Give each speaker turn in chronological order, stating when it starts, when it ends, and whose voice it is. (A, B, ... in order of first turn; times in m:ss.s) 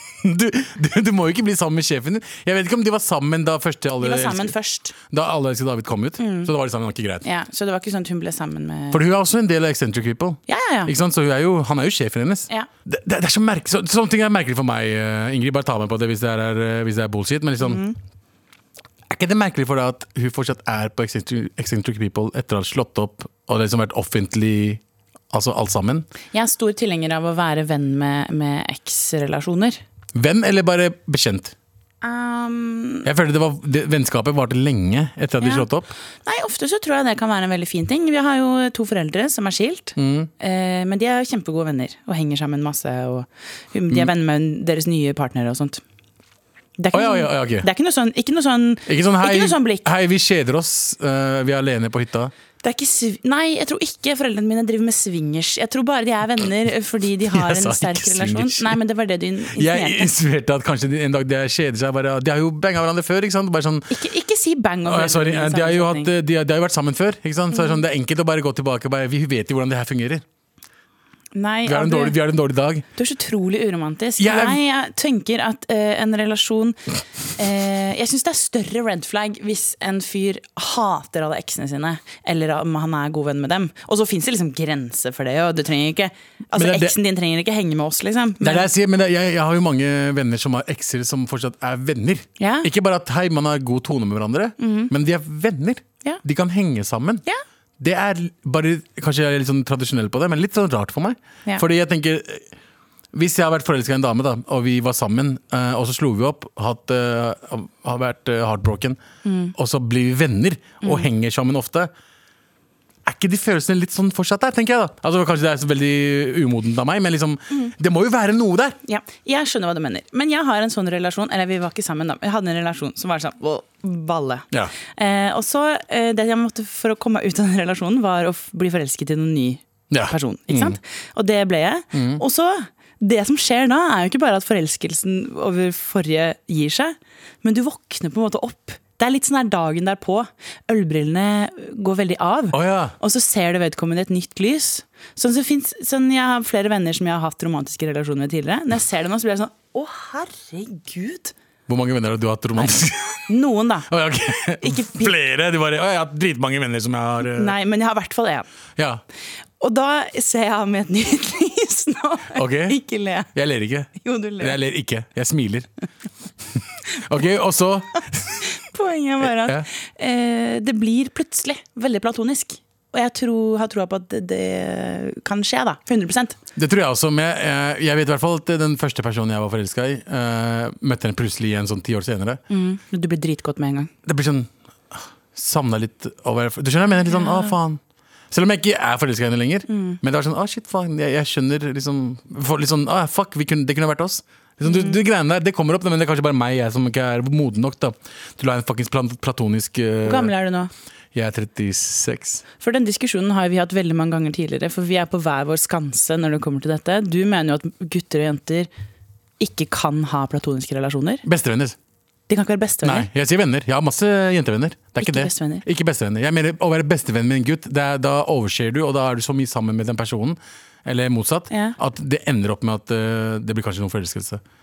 0:00.2-0:07.3 A
0:04.0-0:04.9 B
0:06.2-0:06.5 B
0:07.2-0:09.0 B
0:08.9-0:17.8 A
0:10.5-0:10.9 B
0:17.6-0:18.0 B
0:19.1-0:26.1 A
0:26.3-0:29.8 B
0:30.1-0:31.5 A
0:32.0-0:33.1 B
0:33.0-0:35.9 A
0:35.4-0:35.7 B
0:36.2-0:45.8 B
0:40.0-0:40.3 A
0:46.8-0:49.9 B
0:46.9-0:47.7 A
0:48.9-0:52.3 A
0:52.6-1:00.1 B
0:57.3-0:58.8 A
0:59.5-1:04.0 A
1:03.9-1:06.1 B
1:04.8-1:10.2 A
1:11.3-1:12.2 B
1:11.7-1:12.8 A
1:13.0-1:16.8 B
1:14.2-1:14.6 A
1:17.4-1:28.7 B
1:26.5-1:27.0 A
1:28.4-1:37.2 A
1:32.4-1:32.7 B
1:34.6-1:34.9 B
1:37.8-1:42.5 A
1:43.1-1:49.0 A
1:49.2-1:49.5 B
1:49.6-1:51.9 A
1:50.8-1:51.1 B
1:53.1-1:58.8 A
1:58.9-2:31.3 B
2:09.9-2:10.8 A
2:11.9-2:12.2 A
2:22.5-2:23.0 A
2:31.7-2:33.2 A
2:33.3-2:33.9 B
2:33.9-2:37.6 A
2:34.6-2:35.1 B
2:37.4-2:38.5 B
2:38.8-2:39.0 A
2:39.6-2:43.3 B
2:42.3-2:42.8 A
2:43.3-2:45.7 A
2:44.0-2:44.6 B
2:46.9-2:48.4 A
2:48.4-2:56.4 B
2:49.2-2:49.7 A
2:56.6-3:02.4 A
3:02.5-3:03.9 B
3:04.0-3:20.3 A
3:07.1-3:07.6 B
3:09.7-3:10.0 B
3:14.6-3:15.0 B
3:20.0-3:20.7 B
3:21.1-3:22.4 A
3:22.6-3:28.7 B
3:29.4-3:31.2 B
3:31.2-3:31.8 A
3:32.3-3:33.1 B
3:32.8-3:44.4 A
3:35.0-3:35.6 B
3:41.5-3:41.8 B